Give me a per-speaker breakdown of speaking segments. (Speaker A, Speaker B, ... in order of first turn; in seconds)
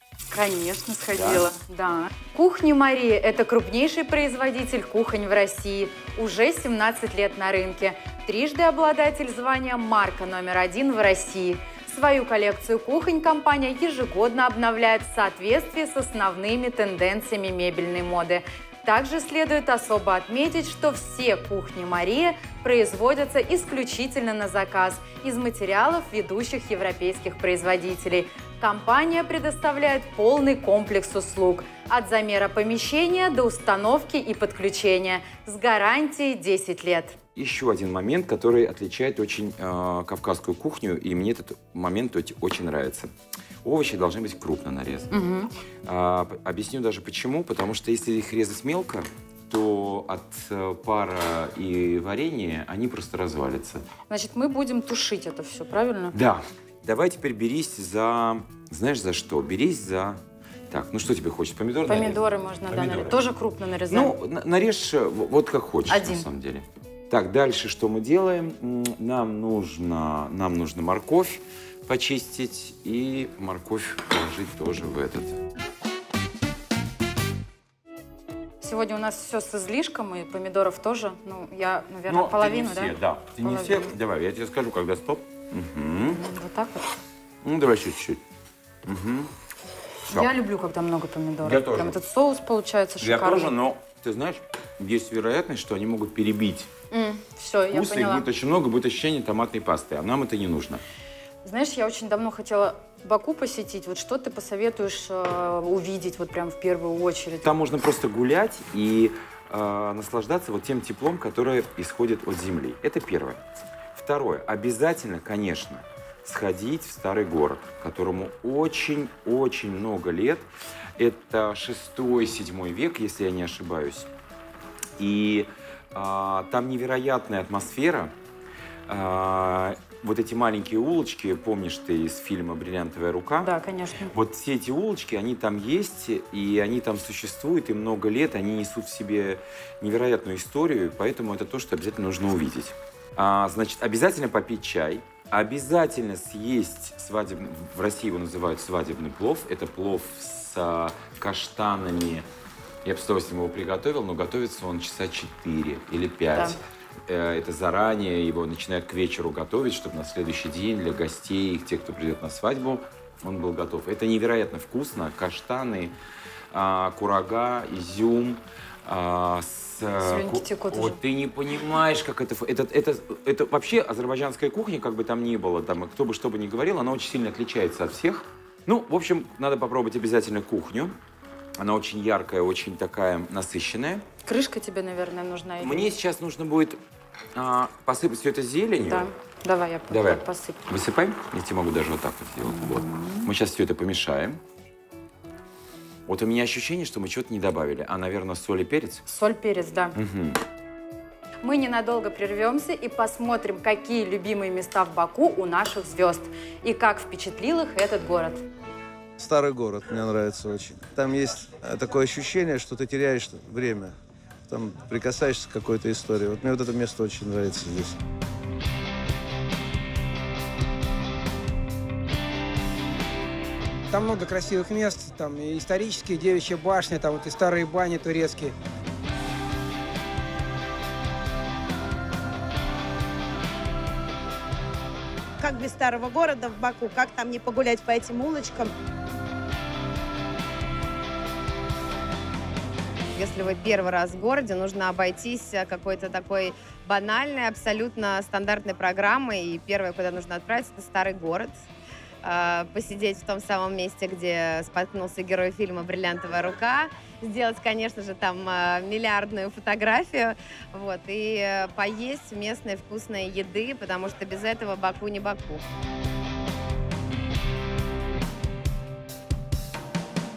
Speaker A: 0.3-37.2, 45.1-45.5, 54.1-56.2, 61.9-64.1, 65.9-66.3, 78.6-83.9, 86.1-86.9, 90.1-93.5, 96.9-98.3, 101.4-107.5, 133.4-134.1, 170.0-171.0, 184.2-185.9, 188.9-190.6, 192.4-193.3, 199.1-200.0, 201.4-208.4
Speaker B: 1.1-1.5, 37.4-43.1, 43.6-45.1, 45.9-53.9, 56.1-63.2, 63.9-75.4, 82.1-86.2, 87.4-88.2, 88.9-89.3, 91.4-92.0, 93.0-96.7, 97.7-100.8, 107.4-113.4, 113.9-124.1, 125.0-128.1, 128.9-133.5, 134.1-152.3, 152.8-165.9, 166.5-180.9, 181.6-184.1, 185.6-186.8, 187.3-189.1, 189.9-194.4, 196.1-199.1, 200.0-200.4
Speaker C: 209.2-213.9, 214.5-218.0
Speaker D: 223.9-228.5
Speaker E: 235.4-238.7
Speaker F: 243.2-251.6, 252.2-265.6